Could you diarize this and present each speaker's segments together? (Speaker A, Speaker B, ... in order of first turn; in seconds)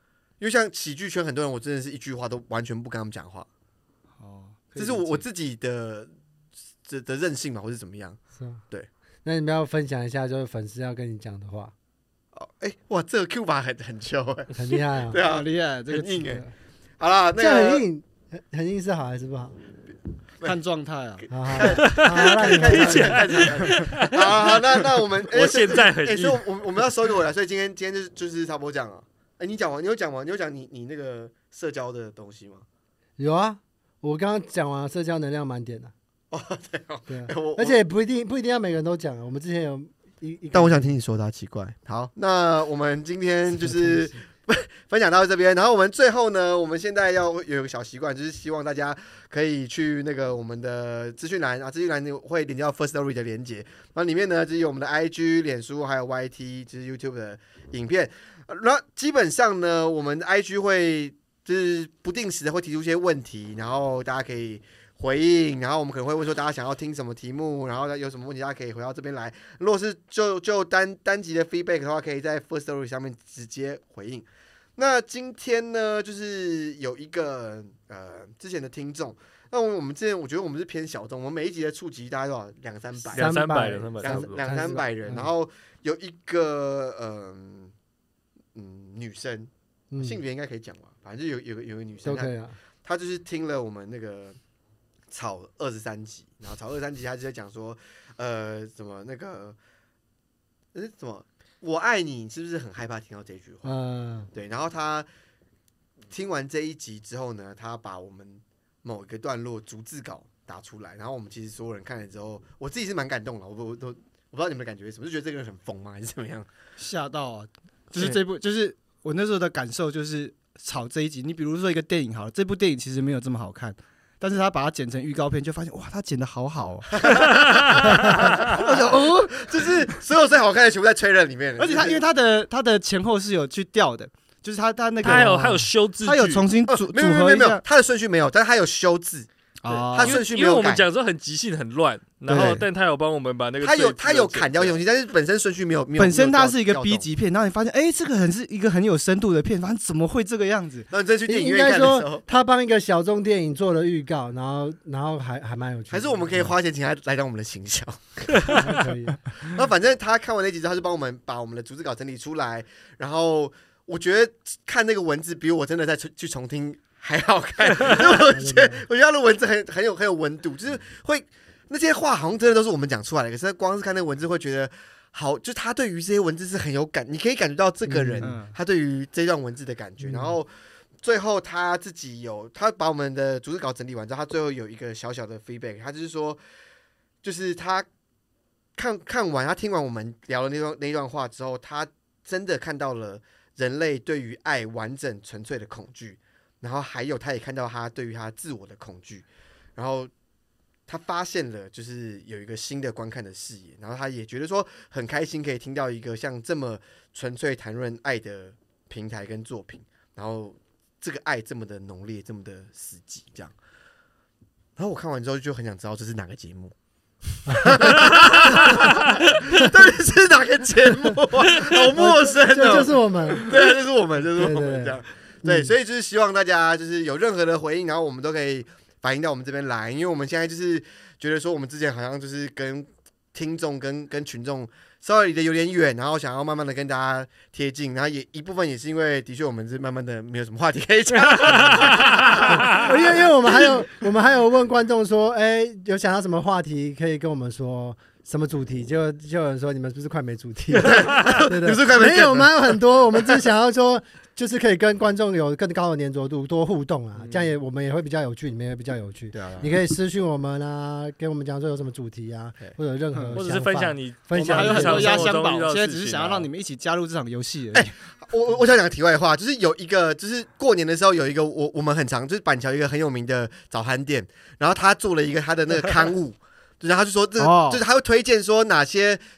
Speaker A: 0.4-3.5, 4.8-6.1, 6.9-8.2, 12.3-16.4, 17.0-17.8, 21.4-32.6, 36.3-37.8, 40.5-83.4, 84.0-87.7, 88.5-92.3, 92.8-94.4, 95.1-99.6, 100.7-103.7, 104.3-105.1, 106.1-116.5, 127.0-132.0, 136.7-139.3, 139.9-140.8, 142.3-142.6, 143.6-147.1, 150.9-152.2, 155.9-158.8, 159.4-180.5, 181.0-186.4, 187.2-187.9, 188.8-199.2, 199.8-200.1, 200.9-213.5, 214.8-216.8, 217.5-243.6, 250.8-253.4, 259.3-259.8, 267.7-279.2
Speaker B: 4.2-5.2, 15.2-16.3, 20.4-21.3, 23.6-23.9, 116.8-129.7, 131.6-137.6, 139.6-140.2, 142.3-142.6, 146.0-150.9, 178.2-178.5, 264.3-267.9, 277.4-277.8
Speaker C: 8.4-8.6, 9.2-11.7, 14.5-15.2, 16.3-16.5, 17.4-19.6, 21.3-23.5, 33.2-35.9, 37.1-40.9, 43.6-44.2, 83.1-85.3, 89.9-90.2, 92.0-92.6, 103.6-104.3, 151.3-156.5, 158.5-159.2, 168.2-168.8, 177.9-178.4, 180.0-180.3, 217.5-217.9, 221.9-223.5, 224.4-225.7, 242.5-265.3
Speaker D: 21.8-26.4, 83.0-84.5, 135.0-136.5, 139.7-144.8, 218.2-219.5, 241.1-242.9, 263.4-266.5